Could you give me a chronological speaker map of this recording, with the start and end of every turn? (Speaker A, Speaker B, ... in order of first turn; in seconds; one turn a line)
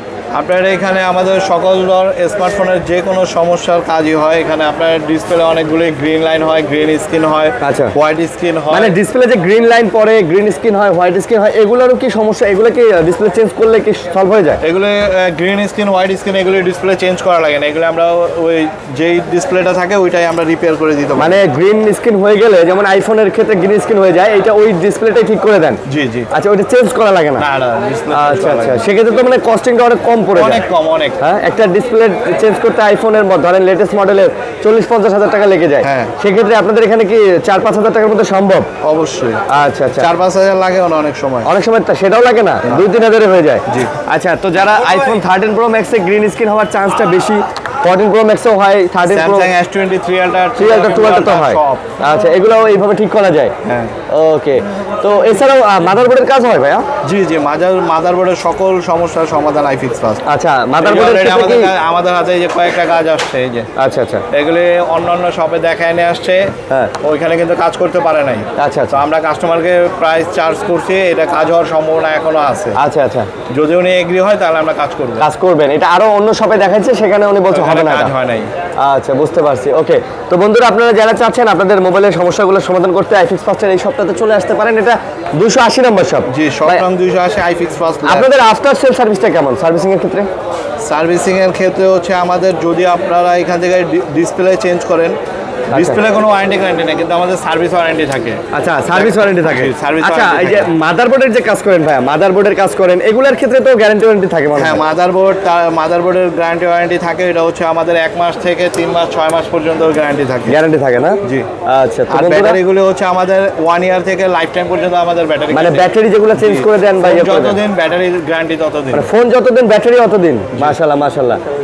Speaker A: 0.3-9.0
Speaker B: 7.6-8.0
Speaker B: 8.7-14.6
Speaker A: 14.6-21.4
Speaker B: 21.2-27.5
Speaker A: 25.9-26.3
Speaker A: 27.4-28.8
Speaker B: 28.1-30.6
Speaker A: 30.4-31.2
Speaker B: 31.2-38.7
Speaker A: 35.8-36.1
Speaker A: 38.8-39.4
Speaker B: 39.5-40.1
Speaker A: 40.0-41.5
Speaker B: 41.5-49.5
Speaker A: 49.1-51.9
Speaker B: 50.6-53.5
Speaker A: 53.6-54.0
Speaker B: 54.1-56.9
Speaker A: 57.0-60.2
Speaker B: 60.3-61.7
Speaker A: 60.8-63.7
Speaker B: 63.8-64.2
Speaker A: 64.3-72.8
Speaker B: 68.6-69.0
Speaker B: 72.8-73.3
Speaker A: 73.5-75.2
Speaker B: 75.2-78.1
Speaker A: 77.5-78.5
Speaker B: 78.8-86.8
Speaker A: 86.3-88.3
Speaker B: 88.0-90.3
Speaker A: 90.8-95.2
Speaker A: 95.7-100.7
Speaker B: 95.7-96.0
Speaker B: 98.5-104.8
Speaker A: 104.5-110.6
Speaker B: 110.5-112.6
Speaker A: 112.1-119.1
Speaker B: 115.5-117.6
Speaker B: 118.9-121.4